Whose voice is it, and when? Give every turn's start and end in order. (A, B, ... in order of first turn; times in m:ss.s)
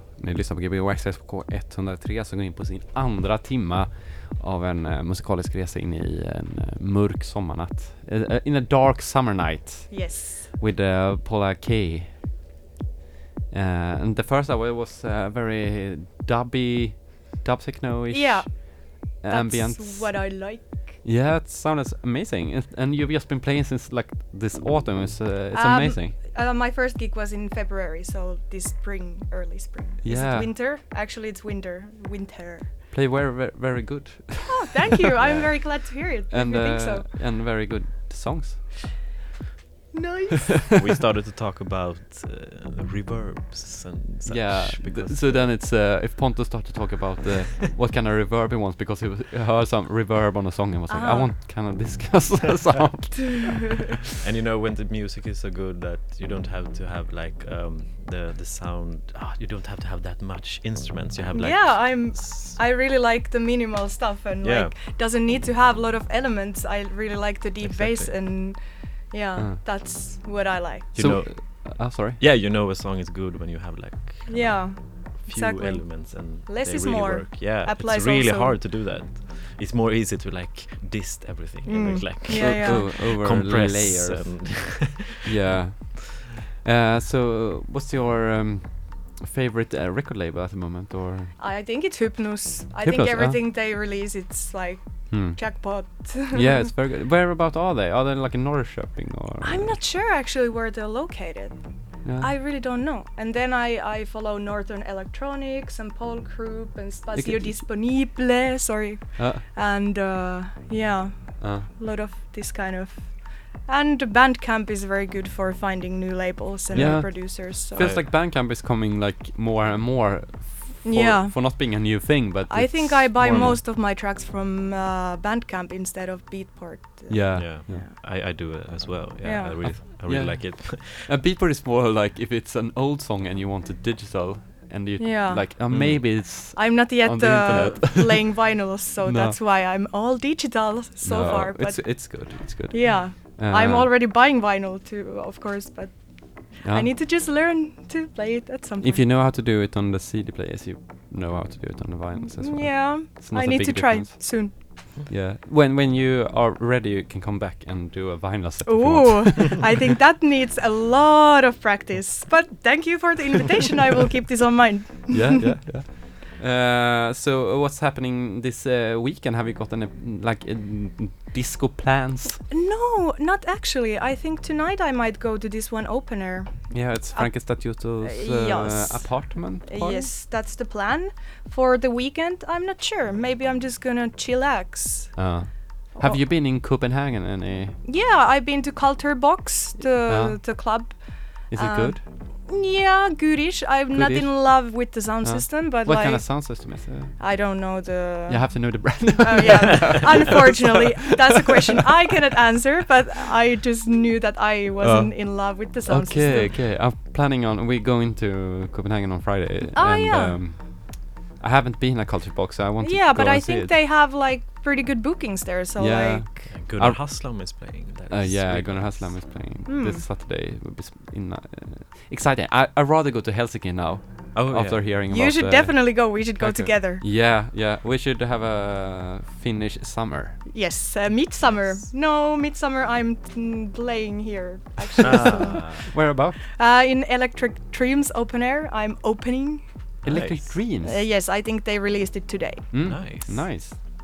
0:00.2-0:12.3 A
0:09.9-0:10.5 B
0:13.5-0:26.2 A
0:18.1-0:21.0 B
0:25.5-0:32.7 B
0:30.0-0:30.5 A
0:32.9-0:39.0 A
0:34.4-0:37.1 B
0:39.9-0:40.6 B
0:40.7-0:45.5 C
0:44.2-0:54.0 A
0:50.9-0:51.3 B
0:54.2-1:02.6 C
1:01.3-1:11.0 B
1:04.4-1:04.7 C
1:07.6-1:08.1 C
1:10.9-1:11.6 C
1:11.0-1:12.2 A
1:12.2-1:25.2 C
1:14.3-1:18.6 B
1:21.7-1:22.9 B
1:22.3-1:31.4 A
1:31.4-1:36.7 B
1:32.8-1:33.4 A
1:35.1-1:39.8 A
1:39.4-1:57.9 B
1:42.0-1:42.3 A
1:47.2-1:47.6 A
1:49.2-1:49.4 A
1:51.4-1:51.7 A
1:56.7-1:57.1 C
1:56.7-2:03.6 A
1:57.8-1:58.1 C
2:00.8-2:01.9 B
2:02.5-2:07.9 B
2:07.1-2:07.8 A
2:07.3-2:11.1 C
2:09.2-2:09.7 B
2:10.0-2:19.4 A
2:15.0-2:15.5 B
2:15.7-2:16.0 C
2:16.3-2:29.0 B
2:21.0-2:23.9 A
2:26.6-2:26.9 A
2:28.8-2:39.9 A
2:32.2-2:34.6 B
2:38.6-2:45.5 B
2:45.1-2:52.4 A
2:52.5-3:05.3 B
2:56.7-3:00.1 A
3:05.2-3:07.8 A
3:05.9-3:06.2 B
3:07.8-3:16.6 B
3:10.1-3:11.0 A
3:11.5-3:12.0 A
3:13.9-3:17.2 A
3:17.2-3:26.5 B
3:18.3-3:20.8 A
3:24.8-3:33.7 A
3:29.7-3:30.4 B
3:32.8-3:36.2 B
3:35.8-3:37.4 A
3:36.5-3:39.2 C
3:38.1-3:50.4 A
3:39.7-3:40.0 B
3:44.3-3:44.8 C
3:45.1-3:47.0 B
3:50.4-3:55.9 B
3:55.0-3:56.4 A
3:55.0-3:55.8 C
3:56.4-3:59.6 B
4:00.0-4:00.6 C
4:00.0-4:01.0 A
4:00.8-4:02.7 B
4:02.7-4:03.8 A
4:02.8-4:03.5 C